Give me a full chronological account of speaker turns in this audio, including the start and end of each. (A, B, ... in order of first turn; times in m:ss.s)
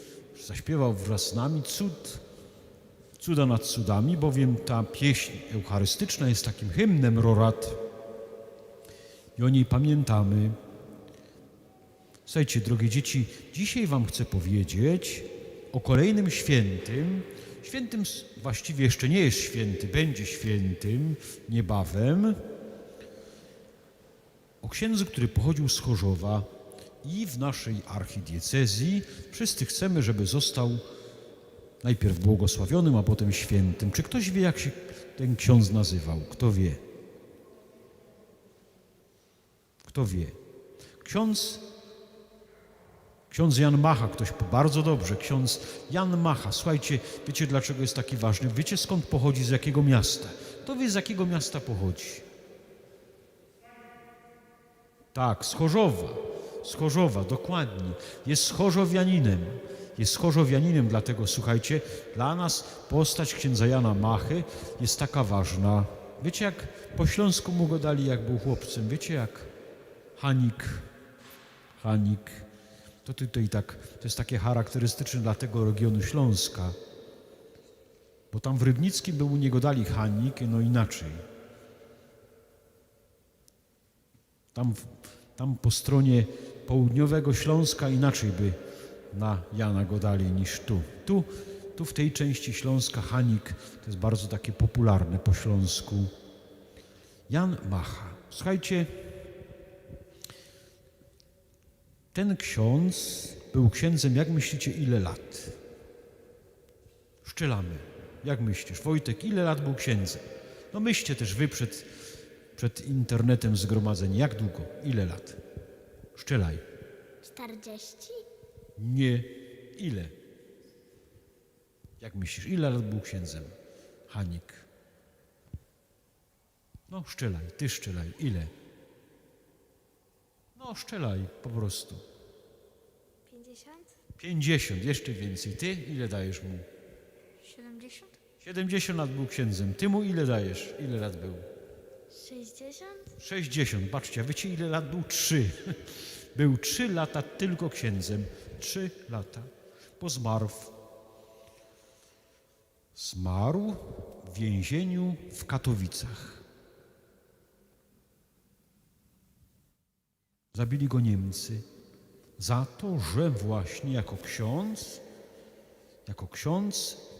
0:00.3-0:02.2 A
0:03.2-0:07.8 A
0:09.4-0:10.6 A
0:12.2-0:22.4 A
0:24.6-0:26.5 A
0:27.0-0:30.8 A
0:31.8-0:36.8 A
0:39.8-0:40.4 A
0:41.0-0:41.6 A
0:43.3-0:52.2 A
0:55.1-1:09.5 A
1:10.2-1:10.9 A
1:11.8-1:12.5 A
1:13.0-1:16.8 A
1:18.3-1:21.2 A
1:24.5-1:28.6 A
1:29.1-1:36.1 A
1:37.3-1:38.9 A
1:42.1-1:45.6 A
1:47.2-1:51.9 A
1:52.5-1:55.4 A
1:56.1-1:56.6 A
1:57.2-1:58.2 B
1:58.8-2:00.2 A
2:02.0-2:03.5 A
2:04.1-2:04.6 A
2:06.9-2:08.5 A
2:10.6-2:12.0 A
2:13.3-2:13.9 B
2:14.2-2:16.7 A
2:17.4-2:18.1 B
2:18.4-2:21.4 A
2:22.1-2:23.1 B
2:23.2-2:30.7 A
2:32.9-2:36.4 A
2:40.5-2:41.6 A
2:42.4-2:45.0 A
2:46.0-2:47.0 A